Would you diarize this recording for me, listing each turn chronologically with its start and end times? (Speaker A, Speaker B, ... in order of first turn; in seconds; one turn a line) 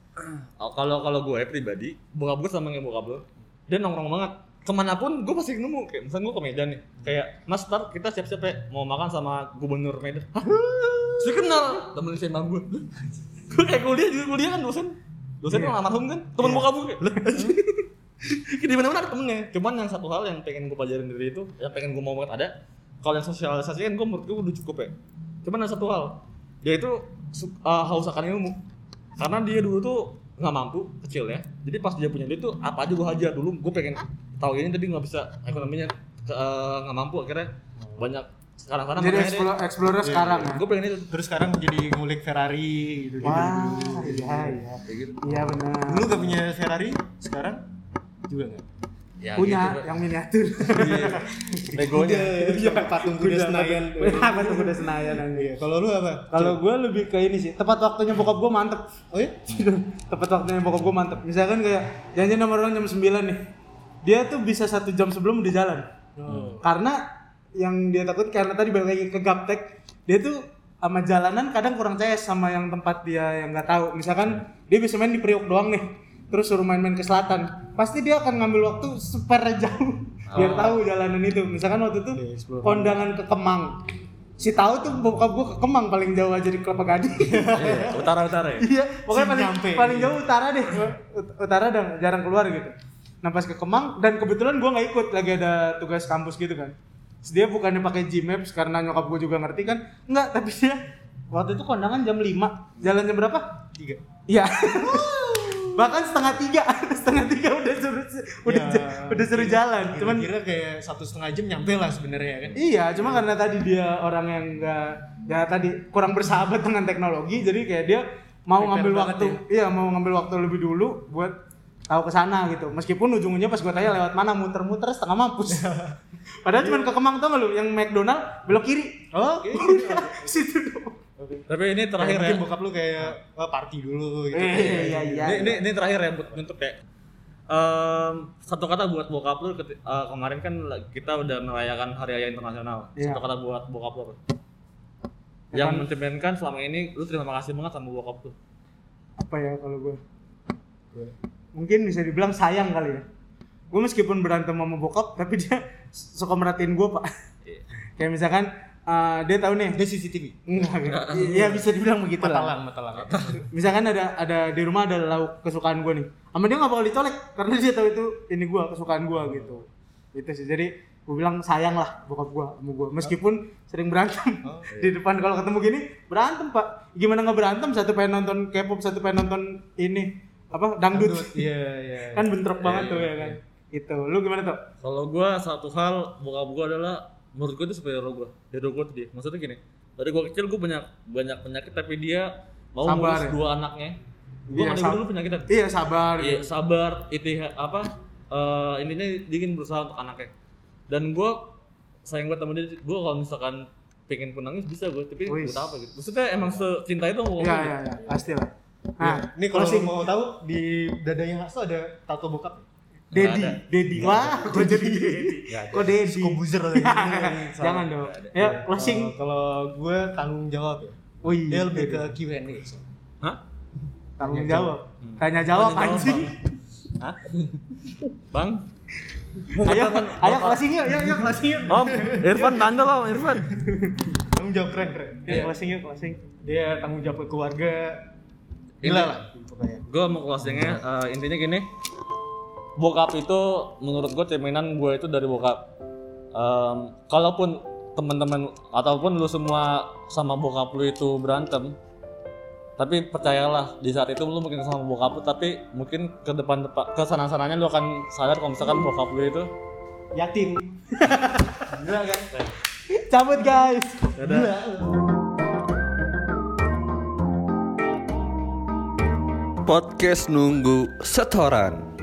Speaker A: 0.2-10.5
Speaker B: 10.4-11.5
Speaker A: 11.2-12.9
Speaker A: 13.5-28.6
Speaker C: 15.5-15.8
Speaker B: 16.4-17.5
Speaker A: 29.2-39.5
Speaker B: 37.8-38.1
Speaker C: 39.0-40.6
Speaker B: 40.0-40.5
Speaker A: 40.4-41.1
Speaker B: 41.1-44.6
Speaker C: 43.2-46.3
Speaker A: 44.8-45.2
Speaker B: 45.3-47.6
Speaker B: 48.3-48.6
Speaker A: 49.2-49.9
Speaker C: 49.4-51.8
Speaker B: 50.7-56.6
Speaker A: 50.7-51.2
Speaker A: 51.7-52.4
Speaker C: 52.4-55.5
Speaker C: 56.3-58.8
Speaker B: 59.1-59.4
Speaker C: 59.5-63.4
Speaker C: 64.0-65.8
Speaker B: 66.2-66.6
Speaker A: 66.3-66.6
Speaker C: 66.6-67.0
Speaker C: 67.5-83.8
Speaker A: 80.3-80.8
Speaker B: 80.3-80.8
Speaker B: 82.1-83.0
Speaker C: 84.4-87.5
Speaker B: 87.2-88.1
Speaker A: 87.5-88.7
Speaker C: 88.6-100.8
Speaker B: 89.1-90.2
Speaker C: 101.3-103.4
Speaker C: 104.3-105.2
Speaker B: 104.7-105.9
Speaker C: 105.7-110.3
Speaker B: 108.5-113.3
Speaker C: 112.5-121.3
Speaker B: 118.5-119.4
Speaker C: 121.9-125.7
Speaker B: 125.5-126.0
Speaker C: 126.4-131.0
Speaker B: 126.5-126.9
Speaker B: 129.1-130.4
Speaker A: 131.5-132.4
Speaker B: 132.0-135.6
Speaker C: 134.3-135.6
Speaker A: 134.5-136.8
Speaker A: 137.5-144.2
Speaker C: 142.9-143.2
Speaker C: 145.5-145.9
Speaker A: 145.5-148.3
Speaker C: 149.2-150.0
Speaker C: 151.5-153.1
Speaker C: 153.7-157.1
Speaker C: 158.0-159.8
Speaker B: 159.7-160.5
Speaker C: 160.4-162.5
Speaker A: 160.8-161.7
Speaker B: 162.2-163.4
Speaker A: 163.0-163.4
Speaker C: 163.5-181.4
Speaker B: 169.2-169.6
Speaker B: 174.4-174.7
Speaker B: 180.9-183.4
Speaker C: 182.1-184.6
Speaker A: 182.6-183.0
Speaker A: 184.8-194.0
Speaker C: 192.8-193.4
Speaker A: 194.5-195.5
Speaker C: 194.5-196.5
Speaker A: 196.2-200.3
Speaker A: 200.9-201.5
Speaker A: 202.0-208.1
Speaker C: 205.2-205.7
Speaker B: 206.4-206.6
Speaker C: 207.4-210.0
Speaker B: 209.0-212.7
Speaker A: 213.1-214.6
Speaker C: 213.1-219.1
Speaker B: 214.1-221.0
Speaker A: 217.9-218.5
Speaker C: 221.2-222.1
Speaker B: 221.5-222.8
Speaker C: 224.2-226.3
Speaker B: 224.2-224.8
Speaker A: 225.0-226.3
Speaker A: 227.0-228.7
Speaker C: 229.5-232.6
Speaker A: 229.5-230.7
Speaker A: 231.7-233.5
Speaker B: 231.8-232.5
Speaker B: 233.6-235.5
Speaker C: 235.2-236.2
Speaker B: 236.4-238.0
Speaker A: 238.8-239.2
Speaker B: 238.8-239.8
Speaker A: 239.9-241.7
Speaker A: 242.8-245.7
Speaker A: 246.3-251.7
Speaker A: 252.8-259.5
Speaker B: 260.1-260.7
Speaker C: 260.9-261.7
Speaker B: 261.7-262.3
Speaker A: 262.3-262.5
Speaker C: 263.0-264.1
Speaker A: 264.1-264.6
Speaker B: 264.2-265.1
Speaker D: 269.6-271.9